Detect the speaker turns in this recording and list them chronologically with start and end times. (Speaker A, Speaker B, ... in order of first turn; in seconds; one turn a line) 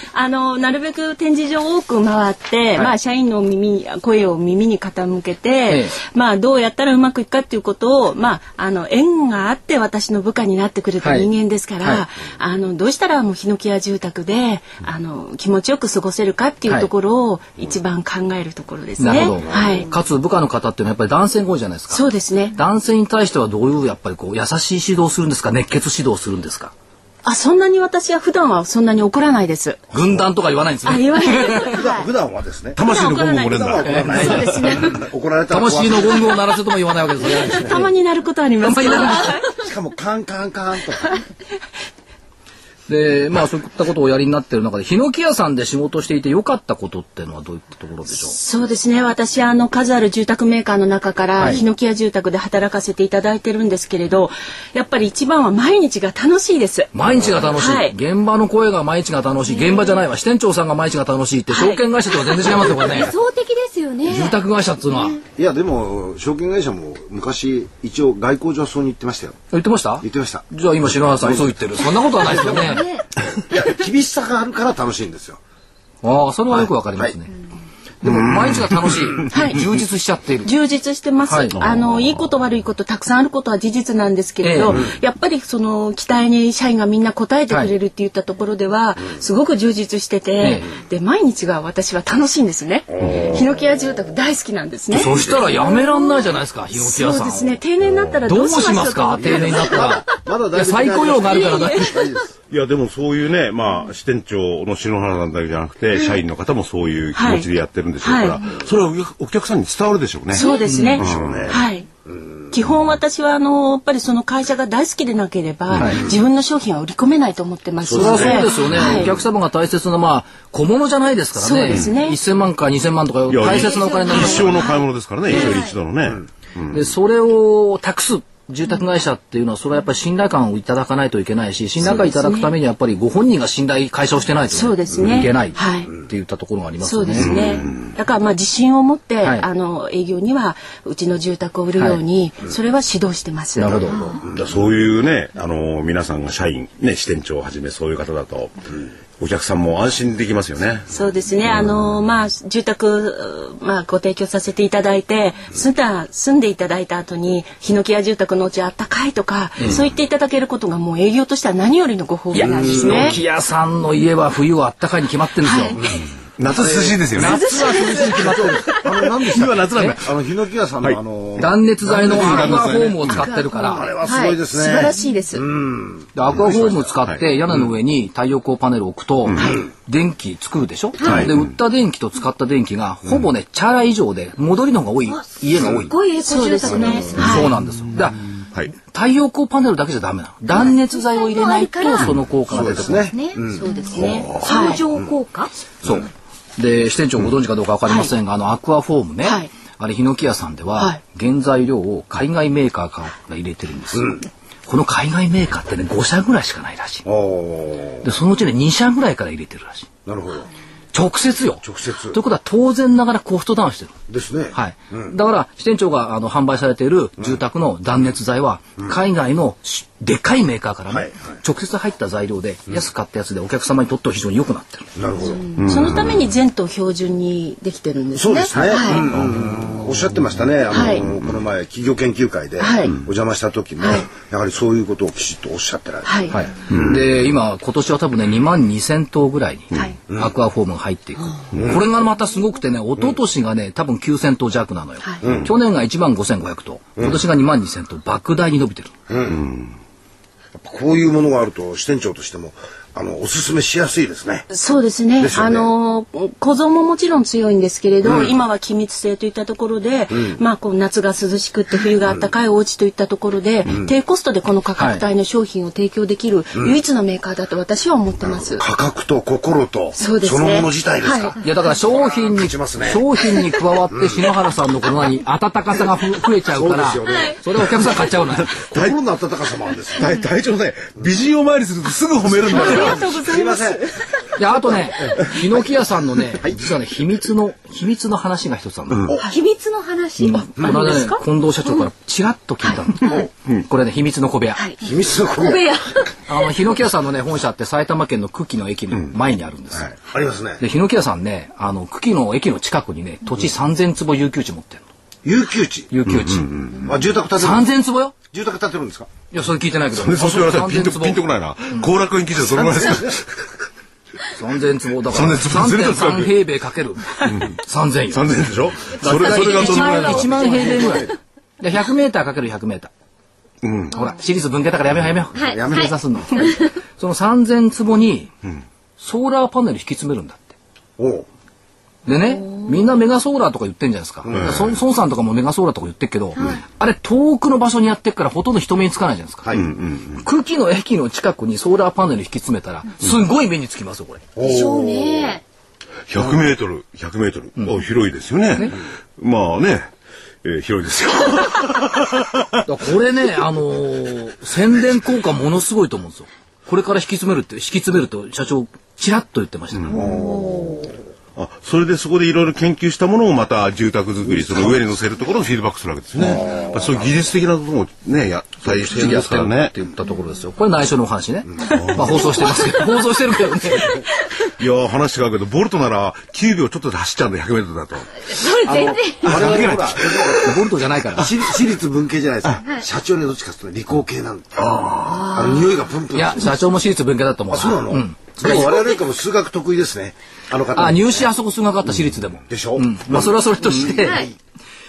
Speaker A: 0.1-19.9
Speaker B: 5.7-6.0
Speaker B: 11.0-11.3
Speaker B: 19.0-26.7
Speaker C: 19.4-19.9
Speaker A: 21.9-22.6
Speaker A: 27.2-29.8
Speaker B: 29.9-31.8
Speaker A: 30.8-32.1
Speaker C: 31.6-33.0
Speaker D: 32.8-34.8
Speaker A: 32.9-35.0
Speaker C: 33.5-36.4
Speaker B: 33.8-34.5
Speaker B: 35.5-37.9
Speaker C: 37.2-37.7
Speaker A: 37.4-39.6
Speaker B: 38.6-39.4
Speaker C: 39.6-41.2
Speaker B: 42.9-48.4
Speaker A: 48.1-56.9
Speaker B: 56.9-63.1
Speaker A: 57.5-58.0
Speaker E: 59.5-59.9
Speaker E: 62.6-64.4
Speaker B: 64.1-65.2
Speaker C: 65.4-69.4
Speaker B: 69.5-72.9
Speaker C: 70.0-70.5
Speaker C: 71.0-75.4
Speaker E: 72.4-73.0
Speaker B: 76.0-77.3
Speaker C: 76.5-77.2
Speaker B: 78.0-80.5
Speaker A: 79.3-79.6
Speaker A: 80.4-95.9
Speaker B: 81.3-81.6
Speaker D: 81.6-82.1
Speaker B: 84.4-84.8
Speaker B: 90.4-90.7
Speaker B: 94.9-97.6
Speaker A: 96.7-99.9
Speaker B: 98.2-102.0
Speaker C: 99.2-102.3
Speaker D: 102.5-111.6
Speaker A: 107.1-107.5
Speaker A: 108.0-108.5
Speaker A: 110.3-111.9
Speaker B: 110.6-111.0
Speaker C: 111.0-112.5
Speaker A: 112.5-119.1
Speaker C: 117.9-118.3
Speaker B: 117.9-124.6
Speaker D: 117.9-118.2
Speaker A: 121.4-122.2
Speaker D: 123.3-126.8
Speaker E: 123.5-124.7
Speaker E: 125.4-125.7
Speaker B: 126.7-137.3
Speaker A: 131.8-132.5
Speaker A: 134.5-136.0
Speaker A: 136.8-143.8
Speaker D: 137.2-137.9
Speaker B: 143.6-144.1
Speaker C: 143.7-144.4
Speaker D: 144.2-148.6
Speaker D: 149.2-151.8
Speaker A: 150.9-163.2
Speaker B: 162.3-165.9
Speaker C: 162.4-163.2
Speaker A: 165.4-165.9
Speaker C: 165.8-172.7
Speaker D: 166.4-167.4
Speaker B: 167.1-168.8
Speaker A: 167.3-167.7
Speaker D: 169.0-170.2
Speaker B: 171.4-173.9
Speaker D: 171.8-173.2
Speaker A: 173.1-175.5
Speaker C: 173.7-176.9
Speaker B: 176.2-185.9
Speaker D: 179.3-179.6
Speaker A: 179.4-179.6
Speaker D: 181.0-181.4
Speaker E: 185.9-187.3
Speaker A: 186.2-187.5
Speaker C: 186.7-187.1
Speaker B: 187.1-193.1
Speaker E: 190.9-192.1
Speaker C: 192.5-194.3
Speaker E: 193.1-195.5
Speaker A: 193.6-194.8
Speaker D: 193.9-194.4
Speaker B: 196.6-207.1
Speaker A: 199.2-199.5
Speaker C: 203.9-204.2
Speaker C: 207.1-208.1
Speaker B: 208.0-209.9
Speaker C: 210.1-210.5
Speaker B: 210.9-214.0
Speaker C: 211.6-212.2
Speaker C: 214.1-215.1
Speaker B: 214.5-224.9
Speaker C: 220.9-221.2
Speaker C: 225.0-225.5
Speaker A: 225.3-229.1
Speaker D: 225.6-226.3
Speaker C: 228.2-236.9
Speaker D: 229.1-229.6
Speaker A: 230.7-231.1
Speaker A: 232.6-233.0
Speaker A: 236.1-236.4
Speaker B: 236.3-248.9
Speaker D: 236.7-237.0
Speaker C: 241.6-241.8
Speaker C: 245.2-245.5
Speaker C: 249.1-249.4
Speaker D: 249.3-249.8
Speaker C: 250.6-254.5
Speaker A: 254.5-268.6
Speaker C: 255.2-255.7
Speaker C: 258.1-258.3
Speaker C: 260.1-260.4
Speaker B: 264.8-265.0
Speaker C: 268.2-273.1
Speaker A: 270.0-271.4
Speaker B: 271.4-278.7
Speaker C: 273.9-274.2
Speaker C: 276.5-277.8
Speaker D: 278.5-279.0
Speaker C: 278.7-280.1
Speaker D: 280.0-283.1
Speaker C: 282.3-283.9
Speaker A: 282.5-284.0
Speaker B: 284.4-289.1
Speaker C: 284.4-286.6
Speaker D: 288.9-289.2
Speaker E: 289.2-291.2
Speaker B: 290.2-294.6
Speaker C: 290.6-290.8
Speaker A: 290.8-291.1
Speaker A: 294.6-294.8
Speaker C: 294.8-296.0
Speaker E: 295.4-296.1
Speaker B: 296.3-299.9
Speaker C: 300.0-300.6
Speaker B: 300.6-304.9
Speaker C: 305.2-305.9
Speaker B: 305.9-306.8
Speaker D: 306.1-306.9
Speaker C: 306.8-307.7
Speaker B: 307.4-308.1
Speaker C: 308.3-309.1
Speaker B: 309.3-311.2
Speaker D: 309.9-313.4
Speaker C: 312.5-313.2
Speaker B: 314.3-318.2
Speaker D: 315.1-316.4
Speaker D: 317.2-320.8
Speaker B: 318.9-322.9
Speaker E: 319.1-321.1
Speaker D: 323.6-324.0
Speaker B: 323.9-328.3
Speaker E: 325.4-325.8
Speaker C: 325.4-325.9
Speaker B: 329.0-330.6
Speaker C: 331.0-331.3
Speaker B: 332.1-339.5
Speaker C: 334.2-334.7
Speaker D: 334.3-334.6
Speaker C: 339.4-339.7
Speaker D: 339.5-340.2
Speaker B: 340.2-344.2
Speaker C: 344.4-345.3
Speaker E: 344.4-345.4
Speaker D: 346.1-349.9
Speaker B: 347.6-347.8
Speaker D: 350.4-352.6
Speaker B: 352.7-360.0
Speaker D: 359.7-360.1
Speaker C: 359.9-360.9
Speaker E: 360.1-360.6
Speaker D: 361.4-369.7
Speaker C: 364.3-364.8
Speaker C: 366.2-367.1
Speaker B: 368.6-374.0
Speaker D: 371.7-372.4
Speaker D: 374.5-378.4
Speaker E: 378.2-379.5
Speaker C: 378.7-386.6
Speaker D: 379.1-380.6
Speaker B: 380.4-381.3
Speaker D: 384.7-385.2
Speaker E: 385.4-385.7
Speaker B: 386.1-388.7
Speaker C: 387.5-391.3
Speaker B: 390.8-394.3
Speaker C: 392.5-394.3